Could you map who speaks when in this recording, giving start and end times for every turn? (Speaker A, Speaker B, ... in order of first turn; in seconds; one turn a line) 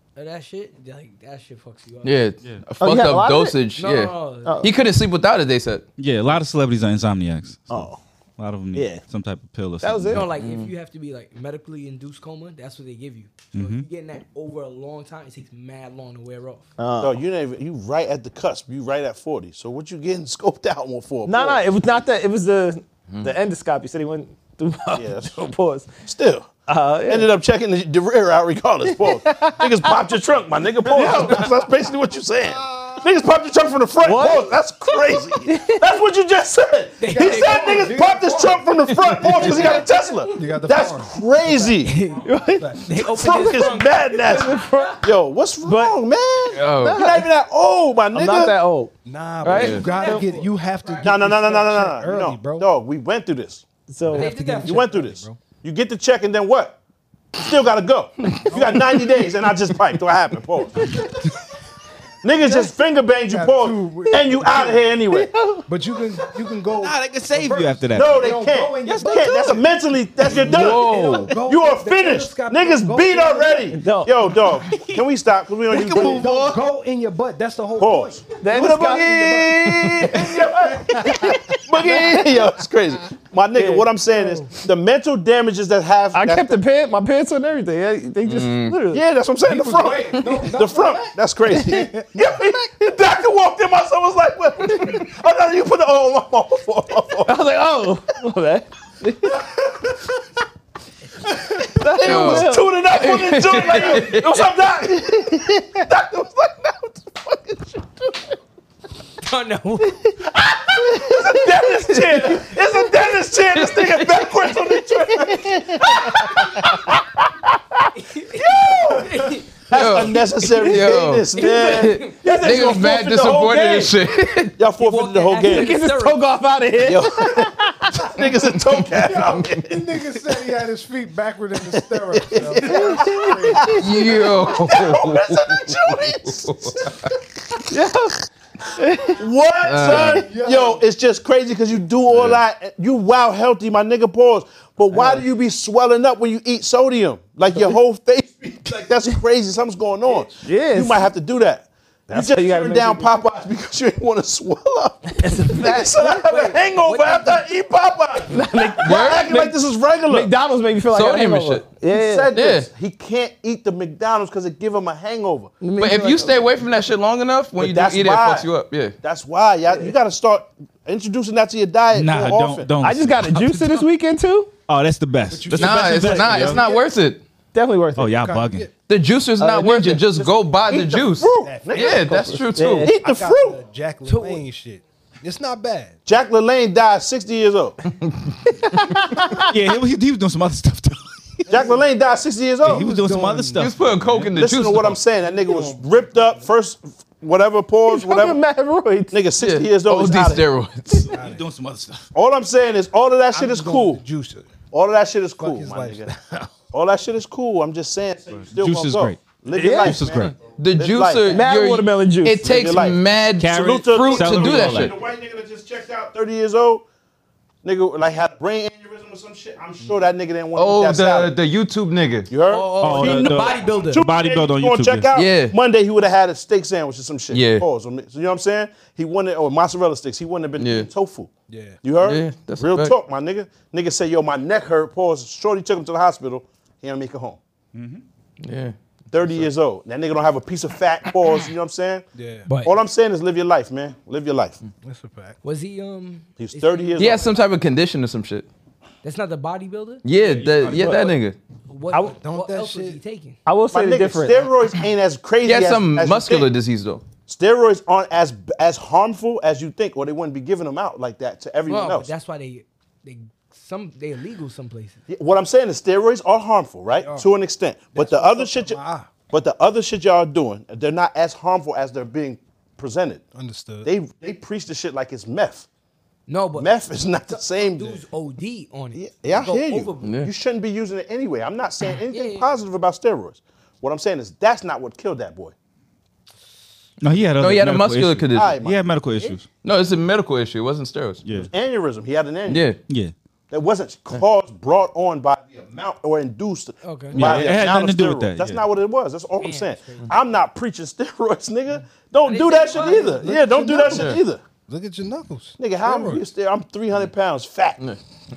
Speaker A: 0.1-2.3
Speaker B: 2.0-5.8
Speaker C: 2.8-3.5
Speaker A: 3.8-4.6
Speaker C: 4.4-4.7
Speaker D: 6.0-10.3
Speaker C: 7.7-8.0
Speaker C: 8.7-9.0
Speaker C: 9.8-10.2
Speaker A: 10.1-16.6
Speaker B: 10.4-10.7
Speaker D: 13.5-13.8
Speaker C: 16.8-17.2
Speaker E: 17.0-21.6
Speaker C: 21.2-25.9
Speaker E: 24.9-25.3
Speaker E: 26.1-26.5
Speaker C: 26.7-27.3
Speaker E: 27.1-41.9
Speaker C: 29.0-30.0
Speaker C: 30.9-31.4
Speaker F: 31.0-31.4
Speaker C: 34.0-34.5
Speaker C: 35.4-35.8
Speaker A: 37.0-37.9
Speaker F: 37.1-41.9
Speaker A: 39.1-39.9
Speaker A: 41.9-44.9
Speaker C: 42.2-42.8
Speaker F: 42.4-43.0
Speaker E: 43.0-48.6
Speaker C: 43.5-45.0
Speaker C: 45.6-46.0
Speaker B: 46.5-47.0
Speaker C: 46.6-47.3
Speaker C: 48.1-50.2
Speaker F: 49.0-52.7
Speaker B: 49.5-49.8
Speaker A: 49.6-51.1
Speaker E: 51.0-53.6
Speaker C: 53.9-54.8
Speaker A: 54.1-54.9
Speaker F: 54.1-55.4
Speaker E: 54.6-56.8
Speaker E: 57.3-61.0
Speaker F: 58.5-58.8
Speaker E: 62.2-65.3
Speaker F: 62.4-62.8
Speaker F: 63.3-64.8
Speaker C: 65.1-65.7
Speaker F: 65.7-69.6
Speaker D: 66.7-68.2
Speaker E: 67.9-76.4
Speaker D: 68.9-69.1
Speaker B: 70.3-71.3
Speaker F: 70.3-73.7
Speaker C: 73.7-74.1
Speaker D: 75.7-76.6
Speaker F: 75.9-81.5
Speaker E: 77.8-86.6
Speaker C: 78.4-79.5
Speaker C: 81.0-82.3
Speaker C: 83.5-83.9
Speaker F: 84.1-84.5
Speaker C: 86.1-89.0
Speaker B: 88.2-88.8
Speaker E: 88.9-97.4
Speaker F: 89.5-92.5
Speaker C: 97.2-99.4
Speaker E: 99.3-99.9
Speaker E: 101.2-108.1
Speaker C: 101.6-102.7
Speaker B: 102.0-104.4
Speaker A: 109.2-110.1
Speaker E: 110.3-117.0
Speaker B: 113.5-114.3
Speaker A: 117.9-119.5
Speaker E: 118.3-124.0
Speaker B: 119.7-124.5
Speaker A: 121.3-122.3
Speaker E: 124.6-125.8
Speaker A: 124.8-126.3
Speaker C: 125.4-127.7
Speaker E: 126.8-130.0
Speaker B: 128.2-129.4
Speaker F: 129.2-133.9
Speaker E: 131.7-137.1
Speaker C: 132.6-133.6
Speaker B: 133.7-137.1
Speaker C: 137.7-138.2
Speaker C: 138.7-139.2
Speaker E: 139.1-160.3
Speaker B: 139.6-140.3
Speaker F: 139.8-140.8
Speaker B: 142.1-142.4
Speaker C: 144.9-145.2
Speaker C: 150.3-151.1
Speaker C: 152.1-153.2
Speaker C: 155.1-156.3
Speaker A: 155.9-157.5
Speaker C: 158.3-159.6
Speaker B: 158.8-159.4
Speaker C: 160.1-162.3
Speaker B: 160.9-161.6
Speaker E: 161.9-165.5
Speaker B: 162.3-162.7
Speaker C: 165.6-166.4
Speaker B: 165.8-168.9
Speaker E: 167.6-168.5
Speaker E: 169.0-172.7
Speaker D: 171.9-173.8
Speaker C: 172.8-174.5
Speaker D: 174.7-176.6
Speaker F: 175.3-176.8
Speaker B: 175.5-177.2
Speaker C: 177.5-178.2
Speaker D: 178.0-178.7
Speaker F: 178.1-178.7
Speaker B: 178.9-182.9
Speaker C: 179.4-180.1
Speaker E: 180.1-183.6
Speaker F: 181.3-182.3
Speaker C: 182.0-182.9
Speaker F: 182.9-186.0
Speaker A: 184.0-184.4
Speaker E: 186.1-187.8
Speaker C: 188.5-189.5
Speaker D: 189.4-191.5
Speaker F: 191.5-191.8
Speaker E: 191.5-192.9
Speaker F: 192.6-193.9
Speaker D: 192.6-194.2
Speaker B: 193.6-195.0
Speaker E: 194.3-198.4
Speaker F: 195.2-196.4
Speaker C: 197.9-199.1
Speaker E: 199.1-200.5
Speaker B: 199.4-201.1
Speaker F: 201.0-201.4
Speaker D: 201.1-202.1
Speaker E: 202.1-204.0
Speaker F: 203.3-204.5
Speaker E: 204.7-206.1
Speaker F: 205.4-206.6
Speaker E: 206.7-211.4
Speaker D: 208.3-210.3
Speaker C: 209.5-210.0
Speaker B: 210.3-215.0
Speaker C: 211.3-212.6
Speaker E: 212.4-216.8
Speaker D: 213.4-214.9
Speaker E: 217.6-221.3
Speaker B: 220.6-222.3
Speaker E: 222.3-231.3
Speaker A: 222.4-224.0
Speaker D: 222.8-225.1
Speaker B: 225.1-225.5
Speaker B: 227.3-227.7
Speaker B: 230.6-230.9
Speaker F: 231.5-231.8
Speaker E: 231.8-237.4
Speaker B: 232.0-232.9
Speaker D: 237.7-238.0
Speaker B: 238.4-238.7
Speaker E: 239.1-242.1
Speaker F: 242.1-242.5
Speaker A: 242.5-242.8
Speaker E: 242.6-244.6
Speaker F: 244.8-245.4
Speaker A: 245.4-247.4
Speaker E: 246.4-247.3
Speaker B: 247.0-248.5
Speaker A: 249.0-250.5
Speaker B: 250.0-251.4
Speaker D: 250.2-251.1
Speaker A: 251.7-253.4
Speaker F: 252.1-253.0
Speaker C: 253.4-254.4
Speaker E: 253.7-256.5
Speaker B: 255.4-257.0
Speaker E: 257.3-262.1
Speaker A: 261.6-265.0
Speaker E: 265.1-273.3
Speaker F: 266.9-267.3
Speaker F: 267.9-269.1
Speaker F: 273.3-273.9
Speaker E: 273.8-275.6
Speaker A: 276.3-276.7
Speaker E: 276.5-278.0
Speaker A: 277.3-280.2
Speaker E: 278.9-285.5
Speaker B: 280.0-280.3
Speaker A: 282.1-282.5
Speaker D: 287.0-289.5
Speaker B: 287.4-288.6
Speaker E: 288.3-289.0
Speaker B: 289.6-291.2
Speaker D: 291.2-291.5
Speaker E: 291.3-292.7
Speaker B: 292.5-292.8
Speaker E: 293.5-304.4
Speaker A: 296.8-297.3
Speaker D: 297.1-298.6
Speaker A: 299.4-300.1
Speaker A: 302.2-303.3
Speaker F: 303.2-306.2
Speaker B: 303.9-304.2
Speaker E: 305.6-307.8